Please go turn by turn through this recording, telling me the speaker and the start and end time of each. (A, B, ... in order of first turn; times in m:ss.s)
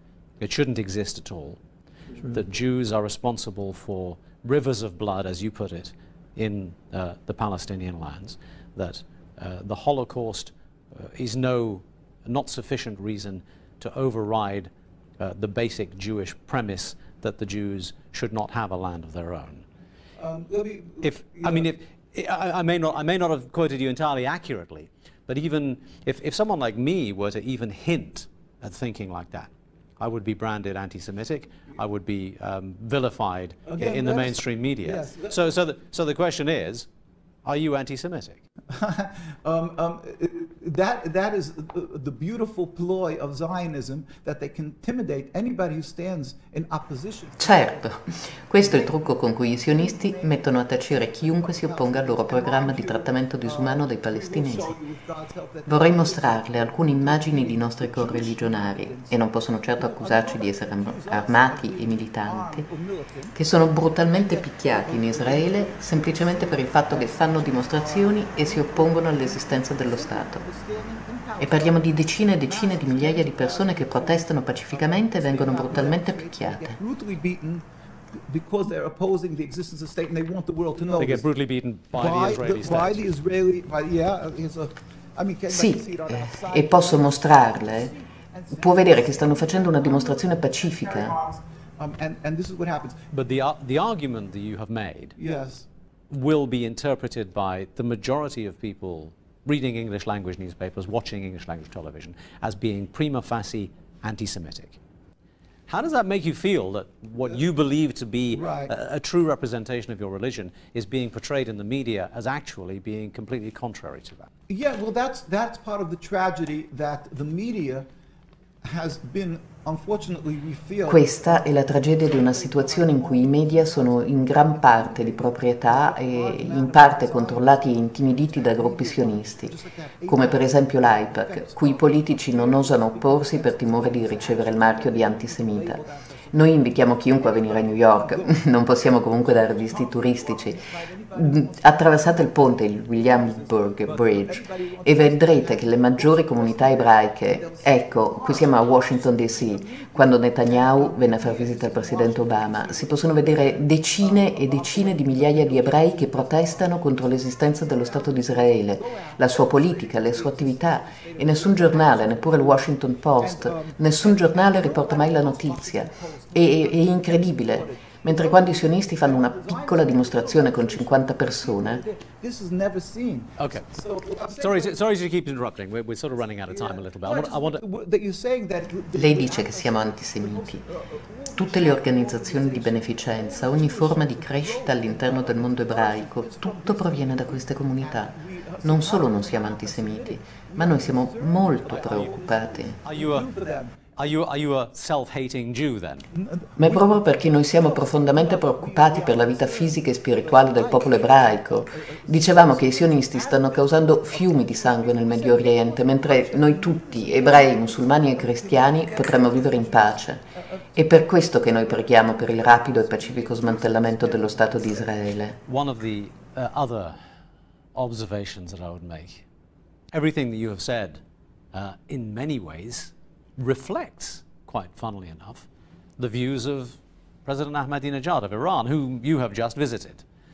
0:00.4-0:01.6 A
0:02.2-0:19.6 A
0:20.2-0:21.7 B
0:21.0-0:36.9 A
0:33.7-0:35.4 B
0:37.4-0:38.4 A
0:38.7-0:47.9 B
0:47.4-0:54.8 C
0:48.6-0:50.4 B
0:51.1-0:59.2 B
0:55.7-1:02.6 C
0:59.8-1:03.4 B
1:03.4-1:10.4 C
1:04.0-1:17.6 B
1:11.4-1:16.8 C
1:18.3-1:21.2 B
1:21.0-1:23.1 A
1:21.9-1:33.0 B
1:25.5-1:27.9 C
1:28.6-1:31.2 C
1:33.1-1:35.2 A
1:35.2-1:35.7 B
1:36.1-1:44.8 A
1:45.7-1:54.3 A
1:48.3-1:48.7 B
1:54.5-1:57.9 B
1:58.6-2:18.9 B
2:00.8-2:09.6 C
2:10.1-2:51.8 C
2:19.6-2:54.8 B
2:53.4-2:53.7 A
2:54.4-2:57.6 A
2:56.4-3:13.8 B
2:58.9-3:00.6 C
3:01.4-3:12.8 C
3:11.7-3:12.1 A
3:12.8-3:16.1 A
3:16.1-3:35.0 B
3:16.6-3:30.2 C
3:30.8-3:35.4 C
3:35.4-3:37.0 A
3:37.7-3:39.2 A
3:39.9-3:41.0 A
3:41.5-3:45.5 A
3:46.0-3:50.0 A